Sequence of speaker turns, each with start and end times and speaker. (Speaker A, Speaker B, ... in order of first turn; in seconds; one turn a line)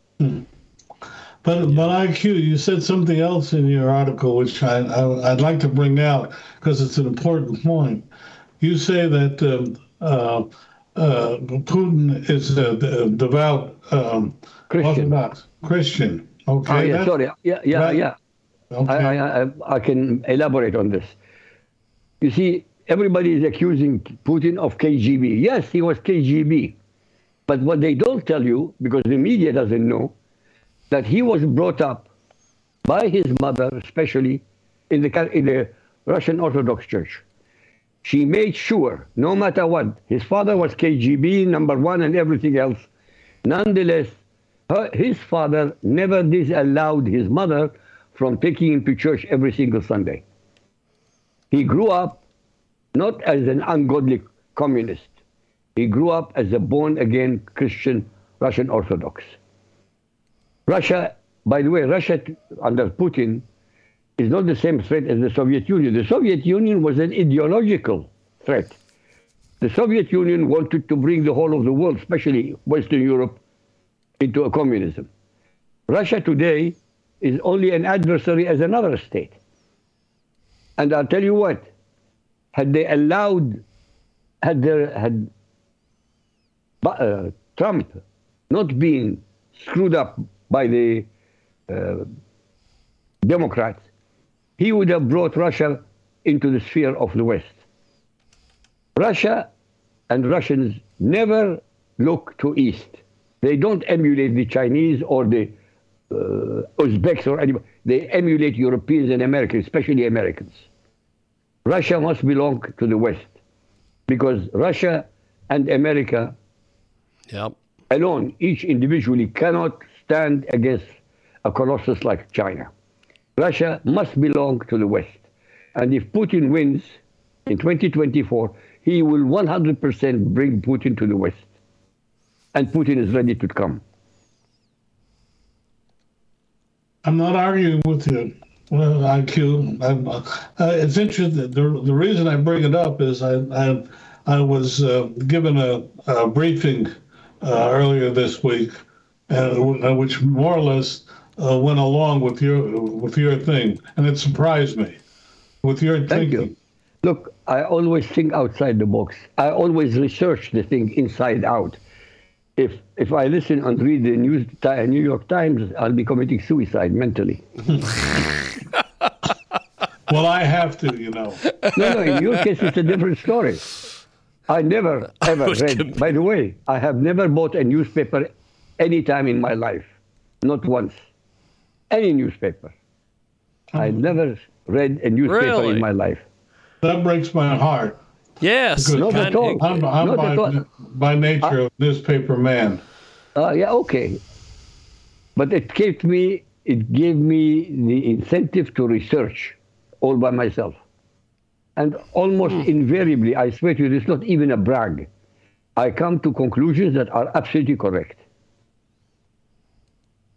Speaker A: 0.2-0.5
Speaker A: 1.4-8.1
Speaker A: 8.6-17.1
Speaker B: 14.7-15.1
Speaker B: 16.7-18.1
Speaker A: 17.7-18.0
Speaker A: 18.7-19.2
Speaker B: 18.9-21.1
Speaker B: 22.2-26.8
Speaker B: 27.5-30.1
Speaker B: 30.9-32.1
Speaker B: 32.9-37.2
Speaker B: 38.0-42.9
Speaker B: 43.4-44.2
Speaker B: 44.7-50.2
Speaker B: 51.5-52.2
Speaker B: 53.0-55.1
Speaker B: 55.8-59.4
Speaker B: 60.7-63.4
Speaker B: 64.2-68.8
Speaker B: 69.6-73.4
Speaker B: 74.2-75.1
Speaker B: 75.9-79.3
Speaker B: 80.8-81.7
Speaker B: 82.5-83.6
Speaker B: 84.4-85.3
Speaker B: 86.8-88.0
Speaker B: 88.5-91.1
Speaker B: 91.7-92.1
Speaker B: 93.2-93.8
Speaker B: 94.6-97.6
Speaker B: 99.0-99.5
Speaker B: 100.1-105.5
Speaker B: 106.1-110.6
Speaker B: 111.7-113.3
Speaker B: 114.1-116.3
Speaker C: 117.3-117.5
Speaker B: 117.9-120.9
Speaker B: 121.5-122.7
Speaker B: 123.4-125.2
Speaker B: 125.8-126.9
Speaker B: 127.5-131.4
Speaker B: 132.5-133.8
Speaker A: 137.0-148.8
Speaker A: 149.3-155.0
Speaker A: 155.6-156.5
Speaker B: 156.1-161.8
Speaker B: 162.6-167.4
Speaker A: 170.1-171.5
Speaker C: 171.6-172.0
Speaker B: 171.7-173.7
Speaker B: 174.5-179.9
Speaker C: 175.3-176.0
Speaker B: 180.4-181.0
Speaker B: 181.9-182.7
Speaker A: 183.7-184.2
Speaker B: 183.8-186.2
Speaker C: 185.3-185.8
Speaker A: 186.8-188.0
Speaker C: 188.4-189.8
Speaker A: 188.8-192.8
Speaker B: 189.0-190.6
Speaker B: 193.4-194.2
Speaker B: 195.4-200.8
Speaker B: 201.8-205.1
Speaker B: 205.8-208.2